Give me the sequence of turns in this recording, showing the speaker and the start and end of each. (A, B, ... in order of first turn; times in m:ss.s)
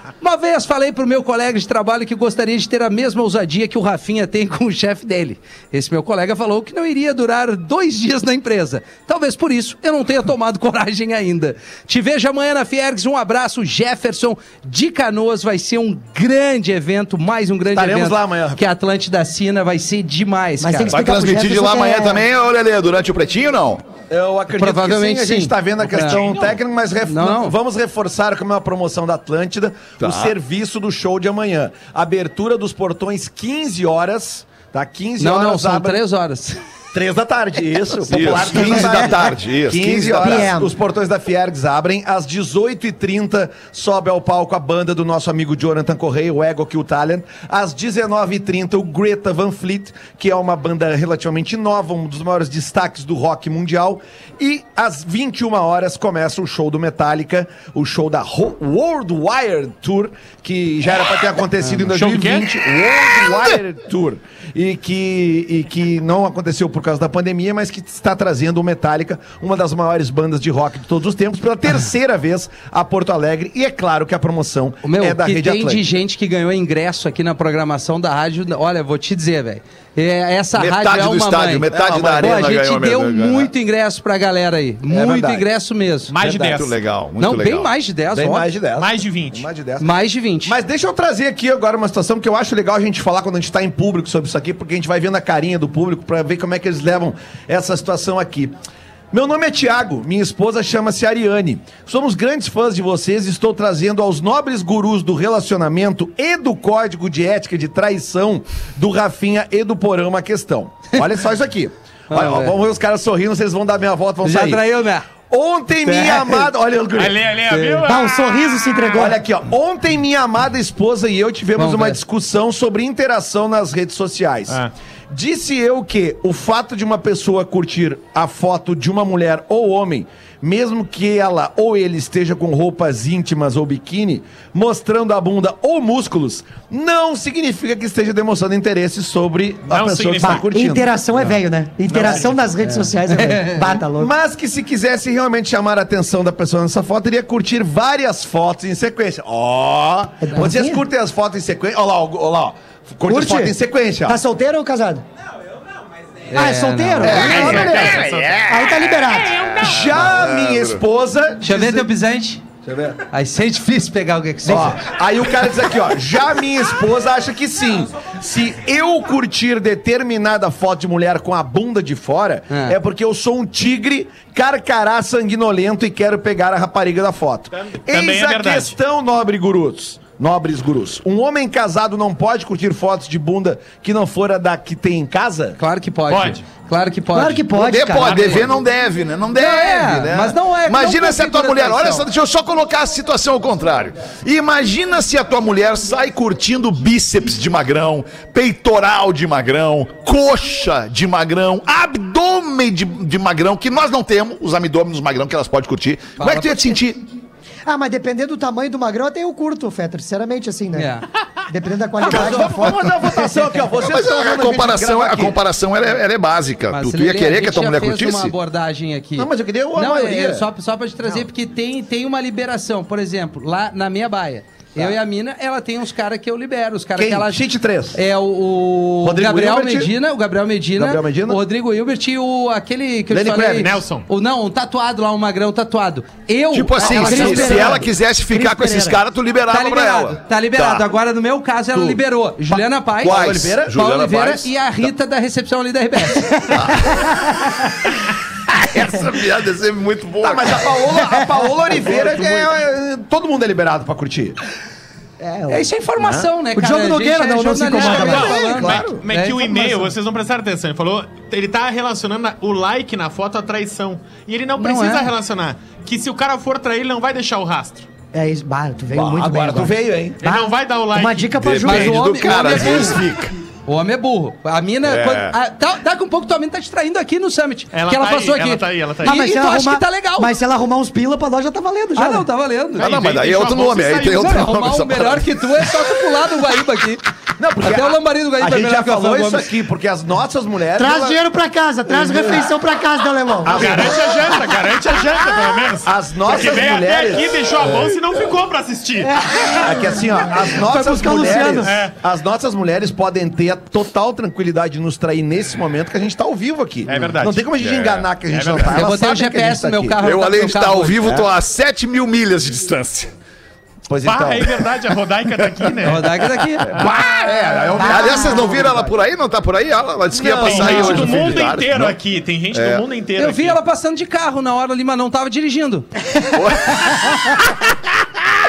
0:00.2-0:21.0 A
0:17.7-0:18.6 B
0:20.6-0:22.2 C
0:20.9-0:23.8 D
0:24.1-0:36.0 B
0:24.6-0:26.2 A
0:27.0-0:27.6 A
0:30.0-0:30.3 D
0:35.2-0:36.6 A
0:36.9-1:15.9 B
0:38.0-0:40.5 D
0:38.5-0:39.2 C
0:40.2-0:40.7 C
1:01.9-1:02.4 E
1:14.8-1:26.1 A
1:20.6-1:23.5 D
1:21.7-1:22.4 B
1:24.9-1:25.4 B
1:26.1-1:26.8 E
1:26.2-1:27.7 D
1:27.2-1:28.5 A
1:28.1-1:29.9 B
1:28.8-1:29.5 E
1:29.8-1:30.6 A
1:30.4-1:38.5 B
1:39.1-1:54.6 B
1:52.1-1:52.6 A
1:54.2-1:55.1 A
1:55.2-1:57.2 B
1:55.8-1:56.5 A
1:56.9-1:59.0 E
1:57.5-1:57.9 A
1:57.8-1:59.2 C
1:58.9-2:20.9 B
2:01.6-2:02.0 A
2:19.7-2:20.4 E
2:20.2-2:24.1 C
2:21.9-2:22.3 E
2:22.6-2:23.8 A
2:23.9-2:34.2 B
2:30.2-2:30.8 C
2:33.0-2:35.0 C
2:36.3-2:37.5 A
2:36.3-2:39.5 C
2:37.0-2:37.9 B
2:37.0-2:40.8 D
2:37.1-2:38.4 E
2:39.6-2:41.9 B
2:41.4-2:42.4 A
2:42.6-2:43.0 B
2:43.1-2:44.8 A
2:44.4-3:05.6 B
2:52.5-2:52.8 A
2:57.5-2:58.7 E
3:05.6-3:07.4 A
3:06.1-3:06.4 E
3:07.1-3:08.4 C
3:07.5-3:27.0 D
3:08.0-3:08.5 E
3:09.3-3:12.1 A
3:26.2-3:26.8 A
3:27.6-3:30.9 C
3:30.7-3:31.0 A
3:31.5-3:33.3 C
3:32.0-3:35.4 B
3:32.1-3:32.3 A
3:33.8-3:38.3 D
3:36.7-3:57.8 A
3:39.2-3:40.5 B
3:47.0-3:48.0 B
3:49.0-3:49.9 B
3:50.8-3:51.4 B
3:53.1-3:53.7 B
3:53.6-3:54.1 E
3:56.5-4:00.9 D
3:56.8-3:59.0 C
3:56.9-3:57.8 B
3:59.5-4:06.5 A
4:03.0-4:04.9 D
4:03.0-4:03.8 B
4:06.2-4:07.7 C
4:06.5-4:07.7 D
4:08.5-4:10.8 D
4:10.2-4:14.4 B
4:11.2-4:11.7 C
4:15.2-4:15.7 C
4:15.5-4:19.9 A
4:16.0-4:16.3 B
4:16.5-4:18.4 C
4:17.7-4:27.9 E
4:17.8-4:19.0 B
4:24.6-4:25.1 A
4:28.1-4:32.9 C
4:28.9-4:30.2 B
4:30.2-4:31.4 E
4:31.4-4:33.3 D
4:31.6-4:33.0 A
4:33.7-4:40.3 A
4:34.8-4:35.4 D
4:37.7-4:39.2 E
4:39.0-4:42.3 C
4:41.9-4:42.9 A
4:42.8-4:44.3 E
4:42.8-4:45.7 D
4:44.0-4:47.0 A
4:47.4-4:51.2 B
4:47.6-4:49.5 A
4:50.7-4:54.0 C
4:51.9-4:52.4 B
4:53.4-4:54.2 B
4:53.5-4:59.3 E
4:55.8-4:57.4 B
4:59.0-5:01.8 C
4:59.5-5:10.0 B
5:01.6-5:02.0 E
5:06.9-5:07.5 E
5:07.6-5:08.1 D
5:08.3-5:08.8 E
5:08.7-5:11.1 A
5:10.0-5:13.1 D
5:13.9-5:14.6 B
5:14.0-5:16.2 E
5:15.8-5:16.7 A
5:16.7-5:22.0 D
5:16.7-5:18.9 B
5:17.8-5:18.5 C
5:20.1-5:21.4 B
5:20.4-5:23.6 E
5:22.5-5:22.8 D
5:23.2-5:25.9 A
5:26.3-5:27.4 D
5:26.8-5:27.2 C